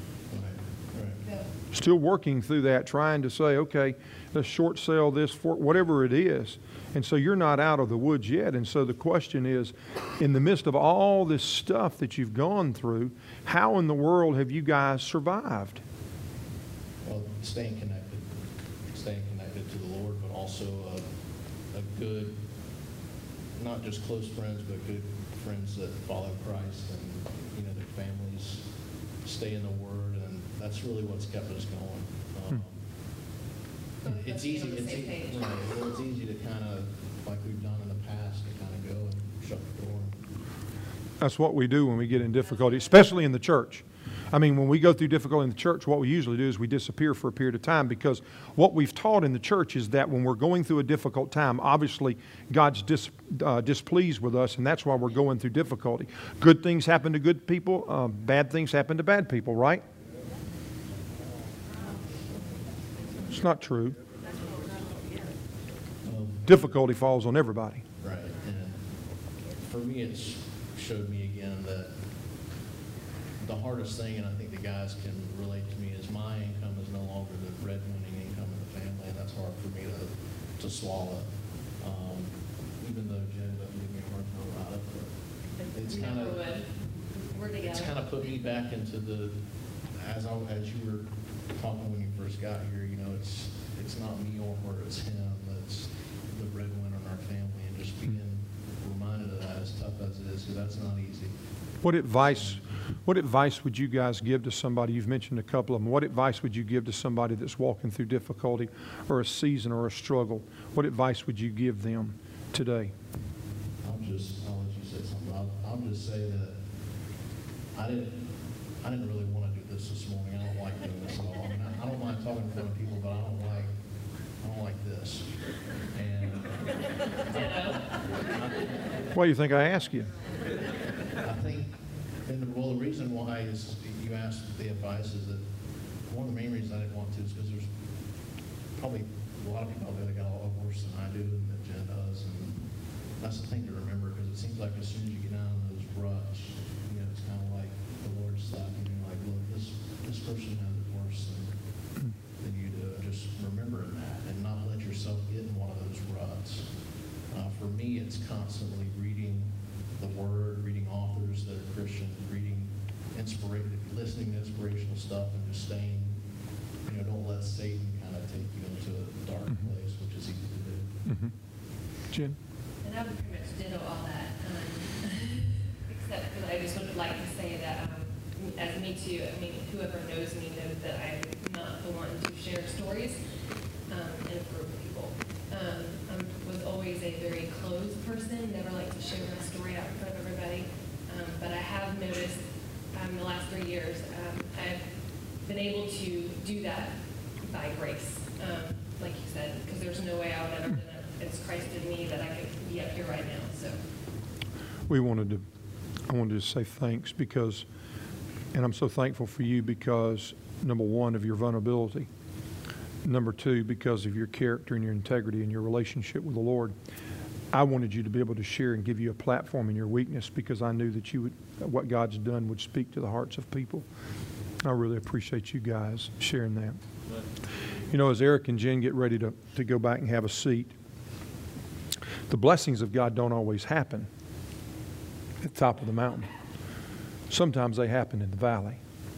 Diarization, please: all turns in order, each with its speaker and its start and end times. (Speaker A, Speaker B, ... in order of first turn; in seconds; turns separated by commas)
Speaker A: 0.3-1.2, Speaker B: 1.7-15.8, Speaker A: 17.1-18.3, Speaker A: 18.9-21.1, Speaker A: 21.7-22.4, Speaker A: 23.6-28.7, Speaker A: 29.2-32.8, Speaker C: 34.0-35.5, Speaker A: 34.0-40.2, Speaker B: 41.2-59.8, Speaker B: 63.3-64.0, Speaker A: 66.0-66.6, Speaker B: 66.5-67.8, Speaker A: 68.0-68.8, Speaker A: 69.6-71.9, Speaker A: 73.4-81.3, Speaker A: 81.8-85.1, Speaker C: 85.6-86.7, Speaker A: 85.7-86.5, Speaker C: 87.3-88.0, Speaker A: 87.6-89.4, Speaker A: 90.0-101.3, Speaker B: 101.8-112.9, Speaker A: 113.8-116.6, Speaker A: 117.7-118.3, Speaker A: 118.8-123.7, Speaker A: 124.4-125.4, Speaker A: 125.9-127.7, Speaker C: 127.3-127.8, Speaker A: 128.3-128.7, Speaker B: 129.1-130.1, Speaker A: 131.2-131.7, Speaker A: 132.2-135.4, Speaker A: 136.1-137.7, Speaker A: 138.8-142.7, Speaker A: 143.2-151.5, Speaker A: 152.4-156.7, Speaker A: 157.3-166.2, Speaker A: 166.8-171.0, Speaker B: 171.1-171.3, Speaker B: 172.1-172.4, Speaker C: 172.8-183.2, Speaker C: 183.9-194.8, Speaker C: 195.4-203.8, Speaker B: 204.9-205.4, Speaker B: 206.1-207.7, Speaker B: 208.5-212.1, Speaker B: 213.1-216.7, Speaker B: 217.5-223.9, Speaker B: 224.6-226.8, Speaker B: 227.9-230.7, Speaker B: 232.3-234.1, Speaker B: 235.4-236.3, Speaker B: 237.3-238.8